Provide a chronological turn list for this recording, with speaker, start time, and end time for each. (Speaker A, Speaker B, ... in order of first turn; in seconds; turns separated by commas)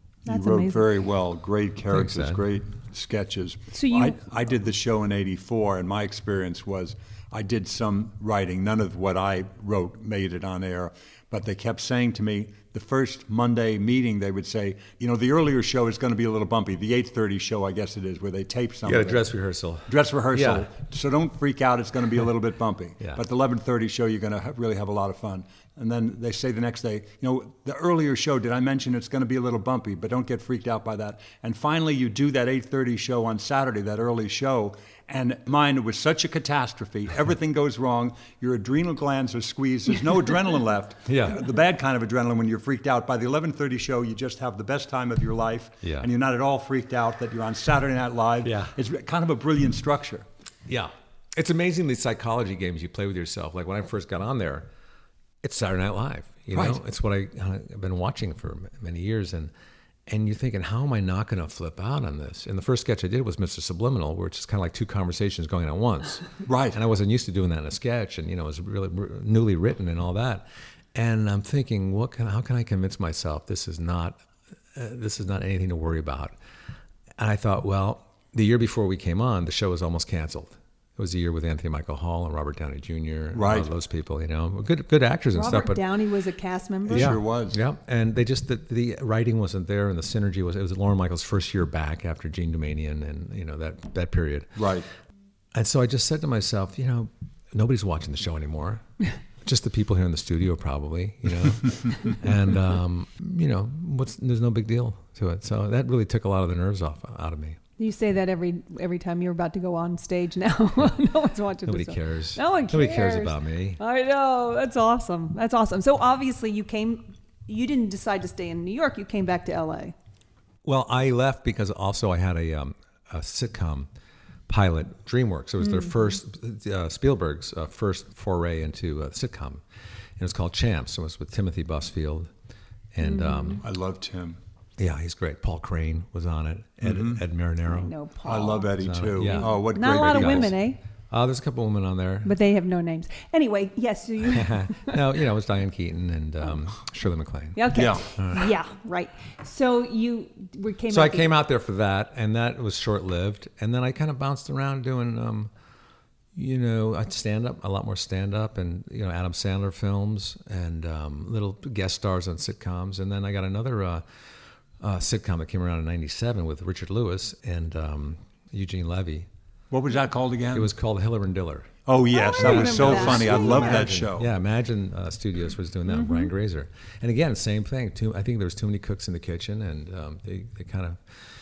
Speaker A: 0.2-0.9, Speaker B: 0.3-19.2, Speaker C: 1.9-2.4, Speaker A: 3.7-4.2, Speaker C: 18.9-20.7, Speaker B: 19.9-50.2, Speaker C: 41.1-41.4, Speaker C: 45.8-46.1, Speaker C: 48.4-48.7, Speaker C: 50.7-54.7, Speaker C: 55.4-59.5, Speaker B: 56.5-56.8, Speaker C: 60.1-74.2, Speaker B: 66.4-66.8, Speaker C: 74.7-76.3, Speaker C: 77.2-85.8, Speaker B: 83.3-83.7, Speaker A: 85.3-87.2, Speaker B: 86.9-87.6, Speaker C: 86.9-94.6, Speaker B: 94.5-94.9, Speaker C: 95.5-98.8, Speaker C: 99.4-107.6, Speaker A: 107.8-119.9, Speaker C: 111.7-113.8, Speaker C: 120.6-123.9, Speaker C: 124.5-129.6, Speaker A: 125.6-126.1, Speaker C: 130.2-132.3, Speaker C: 132.9-133.6, Speaker A: 133.0-133.6, Speaker B: 133.6-134.4, Speaker C: 134.8-137.9, Speaker B: 136.8-137.2, Speaker A: 137.7-138.7, Speaker B: 138.2-140.5, Speaker C: 138.7-140.6, Speaker A: 139.2-140.8, Speaker C: 141.1-142.3, Speaker A: 142.2-145.0, Speaker C: 144.2-148.5, Speaker A: 147.6-151.3, Speaker B: 147.7-148.1, Speaker C: 150.9-155.5, Speaker C: 156.3-164.0, Speaker C: 164.8-169.3, Speaker B: 169.7-170.7, Speaker C: 170.5-171.7, Speaker B: 171.9-174.3, Speaker A: 172.1-173.9, Speaker C: 172.4-181.0, Speaker A: 175.9-176.3